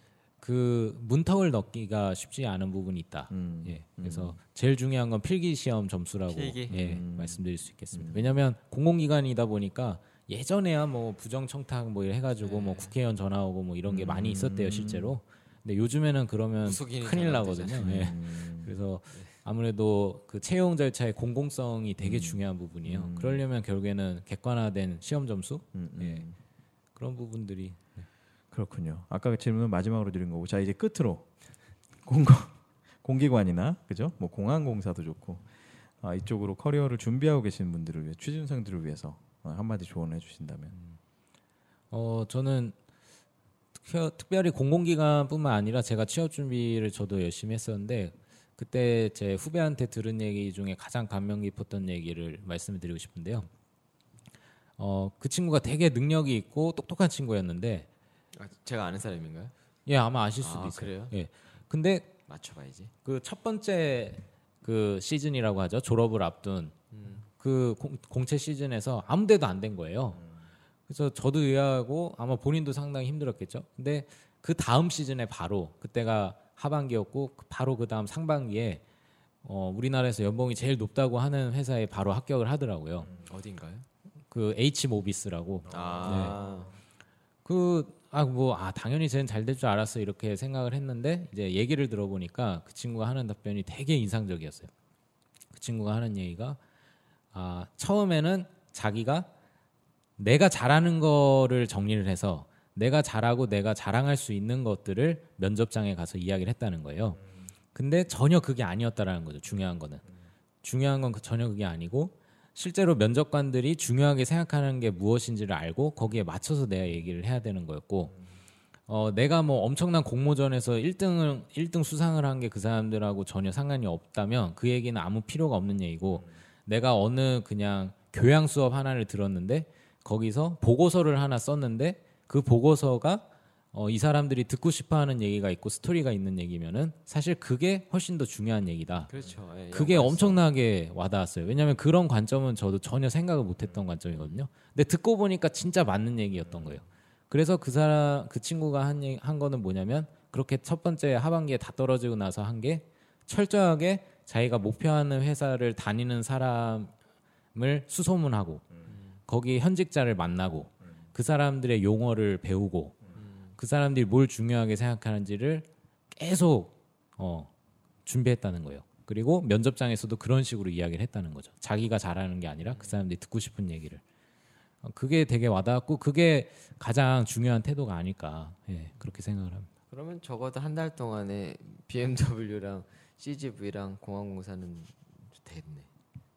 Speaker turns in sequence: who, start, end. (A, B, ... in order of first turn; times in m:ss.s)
0:00.4-0:26.2 A
0:03.3-0:04.4 B
0:06.3-0:06.7 C
0:06.7-0:08.4 B
0:12.4-0:12.9 C
0:13.9-0:15.2 B
0:16.6-0:18.1 C
0:17.8-0:18.7 B
0:22.0-0:23.4 B
0:25.7-0:26.4 B
0:26.9-0:28.1 A
0:28.5-0:31.3 B
0:32.0-0:35.5 B
0:36.0-0:40.7 B
0:40.7-0:41.0 A
0:41.9-0:42.8 A
0:43.8-0:53.5 A
0:54.8-0:57.9 A
0:58.3-0:59.5 C
0:59.8-1:02.1 A
1:00.4-1:01.1 C
1:02.3-1:02.9 C
1:03.0-1:06.7 A
1:06.9-1:07.2 C
1:07.4-1:10.2 A
1:10.9-1:18.8 A
1:19.4-1:23.1 A
1:23.2-1:23.8 C
1:24.3-1:26.4 A
1:25.6-1:26.7 B
1:25.7-1:26.7 C
1:27.4-1:34.7 A
1:35.5-1:36.6 A
1:37.3-1:39.3 A
1:40.2-1:47.2 A
1:47.7-1:50.0 A
1:50.6-1:58.2 A
1:58.9-2:19.1 A
2:19.1-2:20.4 C
2:19.7-2:36.9 A
2:37.5-2:38.6 A
2:38.9-2:39.1 C
2:39.3-2:43.0 A
2:43.2-2:43.5 C
2:43.6-2:47.5 A
2:48.0-2:54.0 A
2:52.6-2:53.0 C
2:54.8-2:59.7 A
2:59.9-3:05.9 C